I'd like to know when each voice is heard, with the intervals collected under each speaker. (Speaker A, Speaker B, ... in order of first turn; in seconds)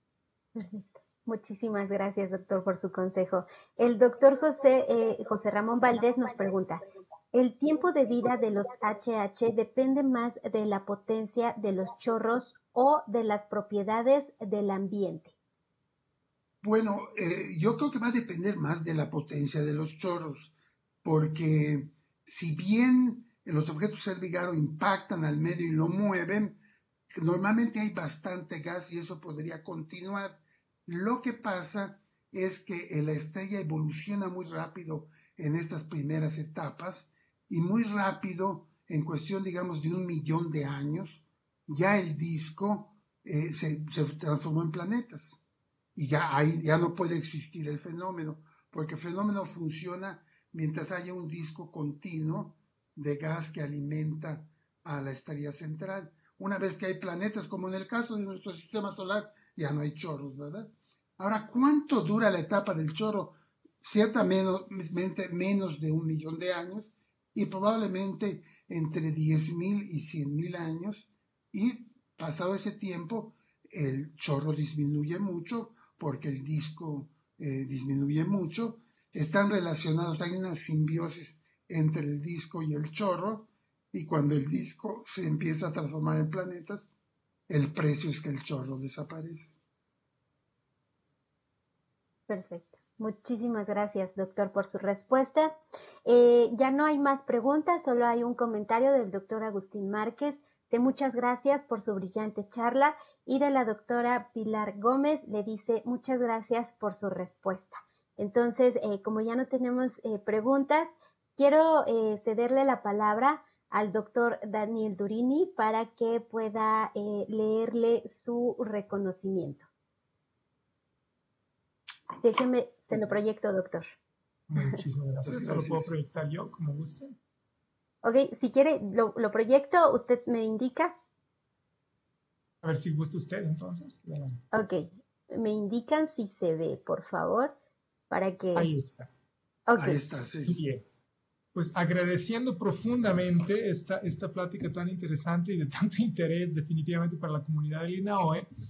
Speaker A: 0.6-15.3, 92.3-119.7, 122.2-123.9, 128.0-130.9, 134.5-137.5, 138.1-138.7, 139.7-140.0
Speaker B: 16.6-26.6, 27.2-45.4, 46.0-86.9, 87.5-89.5, 125.2-125.9, 139.8-140.6
Speaker C: 124.5-127.1, 132.6-134.4, 138.6-139.1, 140.4-140.8, 141.5-148.5